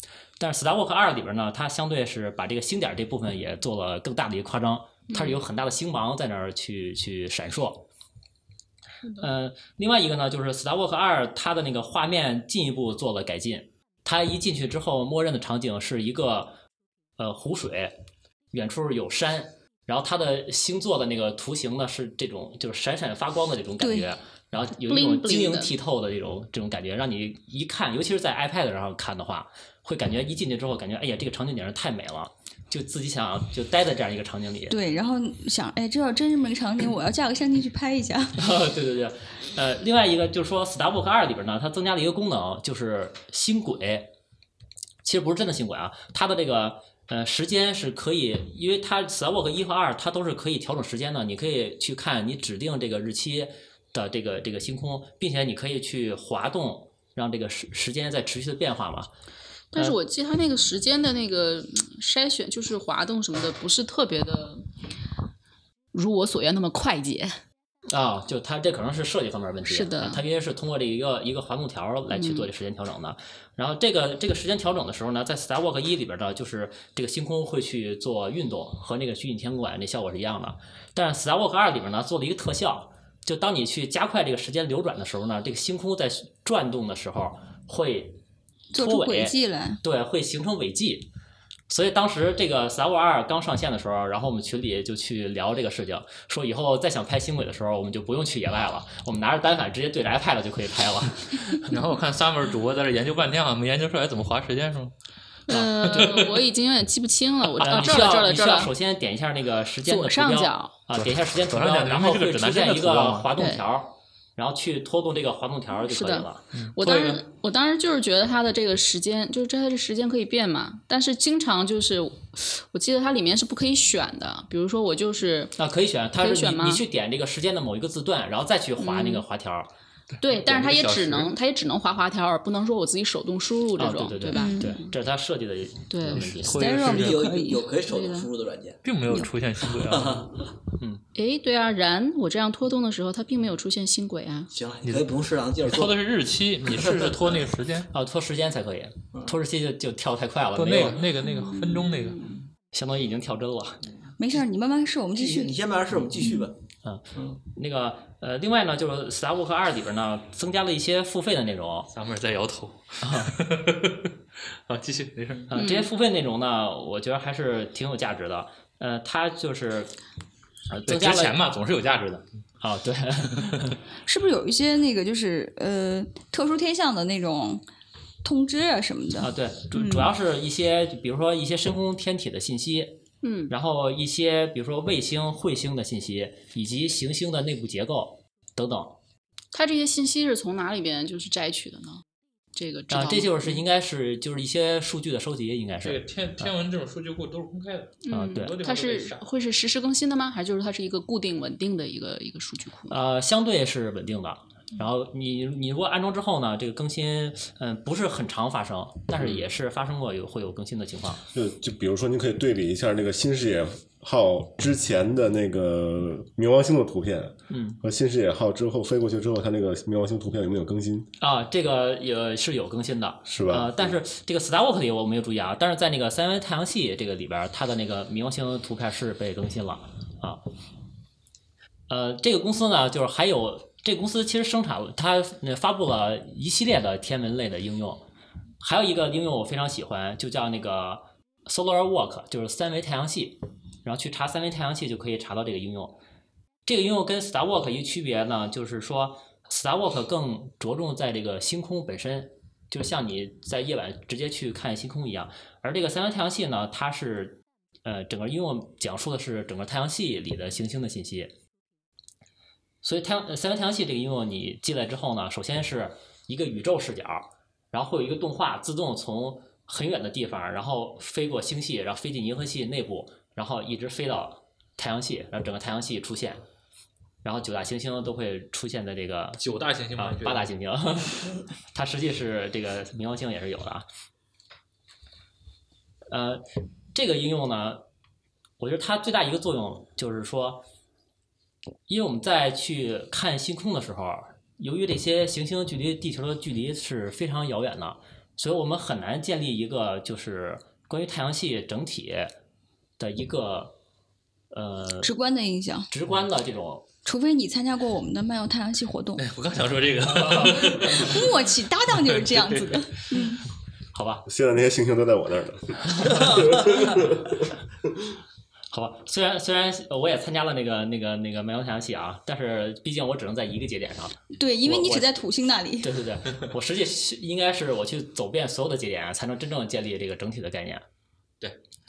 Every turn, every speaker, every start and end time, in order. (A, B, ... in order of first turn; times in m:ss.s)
0:00.4-0:07.8 A
0:05.1-0:05.4 B
0:09.0-0:09.3 B
0:09.2-0:16.6 A
0:17.2-0:17.9 A
0:18.5-0:34.8 A
0:23.8-0:24.1 C
0:24.9-0:25.7 B
0:34.7-0:38.3 C
0:38.4-0:44.1 A
0:45.0-0:59.1 A
0:59.7-1:04.6 B
1:05.9-1:07.4 B
1:07.9-1:28.2 A
1:09.6-1:10.2 B
1:12.1-1:12.5 B
1:28.7-1:29.8 C
1:28.8-1:31.1 A
1:31.7-1:41.7 A
1:41.7-1:44.9 D
1:45.5-1:48.7 B
1:45.5-1:46.4 D
1:45.5-1:46.0 A
1:47.6-1:56.4 A
1:47.6-1:47.9 D
1:49.8-1:50.7 B
1:51.0-1:53.3 D
1:53.4-1:53.6 B
1:55.8-2:05.5 B
1:56.5-1:57.2 D
2:05.6-2:09.7 A
2:06.2-2:06.8 B
2:08.8-2:09.2 B
2:10.2-2:14.7 B
2:10.2-2:11.3 D
2:13.8-2:16.6 A
2:14.3-2:14.8 C
2:15.9-2:16.6 B
2:16.4-2:17.2 D
2:16.5-2:17.6 C
2:16.7-2:18.8 E
2:17.8-2:18.3 B
2:18.8-2:20.3 D
2:19.6-2:20.4 E
2:20.8-2:21.0 A
2:21.1-2:24.5 B
2:24.5-2:26.0 E
2:24.8-2:25.1 D
2:25.6-2:27.9 D
2:26.7-2:27.4 E
2:27.9-2:31.0 A
2:30.5-2:32.4 D
2:31.2-2:32.4 B
2:32.7-2:33.8 A
2:34.2-2:35.6 C
2:35.2-2:36.5 E
2:36.2-2:36.5 C
2:36.8-2:41.9 A
2:41.9-2:44.1 D
2:43.0-2:43.3 A
2:44.6-2:45.5 D
2:45.5-2:49.9 A
2:45.5-2:45.9 B
2:50.7-2:51.4 A
2:50.8-2:52.3 D
2:52.6-2:53.8 A
2:54.0-2:57.6 C
2:58.2-3:00.1 C
2:59.2-3:09.0 A
3:03.2-3:03.5 B
3:09.5-3:12.0 B
3:12.5-3:13.6 B
3:12.9-3:16.5 A
3:15.8-3:19.2 D
3:18.0-3:23.0 B
3:18.1-3:18.5 A
3:22.9-3:31.2 A
3:31.3-3:41.1 F
3:37.5-3:37.8 A
3:41.2-3:50.4 A
3:43.2-3:44.0 F
3:51.9-3:58.0 A
3:58.6-4:06.0 A
4:06.6-4:21.3 A
4:22.8-4:36.4 A
4:37.2-4:39.4 A
4:39.4-4:40.5 D
4:39.9-4:43.8 A
4:46.1-4:46.4 A
4:46.9-4:47.8 A
4:48.6-4:50.6 A
4:51.9-5:02.3 A
5:03.0-5:03.8 A
5:04.5-5:05.1 A
5:05.0-5:05.9 C
5:05.9-5:06.9 A
5:07.0-5:09.2 C
5:09.2-5:11.4 D
5:10.1-5:11.1 A
5:10.9-5:13.4 C
5:11.9-5:13.2 D
5:13.9-5:14.2 A
5:14.2-5:17.4 F
5:16.0-5:16.3 A
5:18.7-5:25.2 A
5:24.3-5:25.9 C
5:25.8-5:30.8 A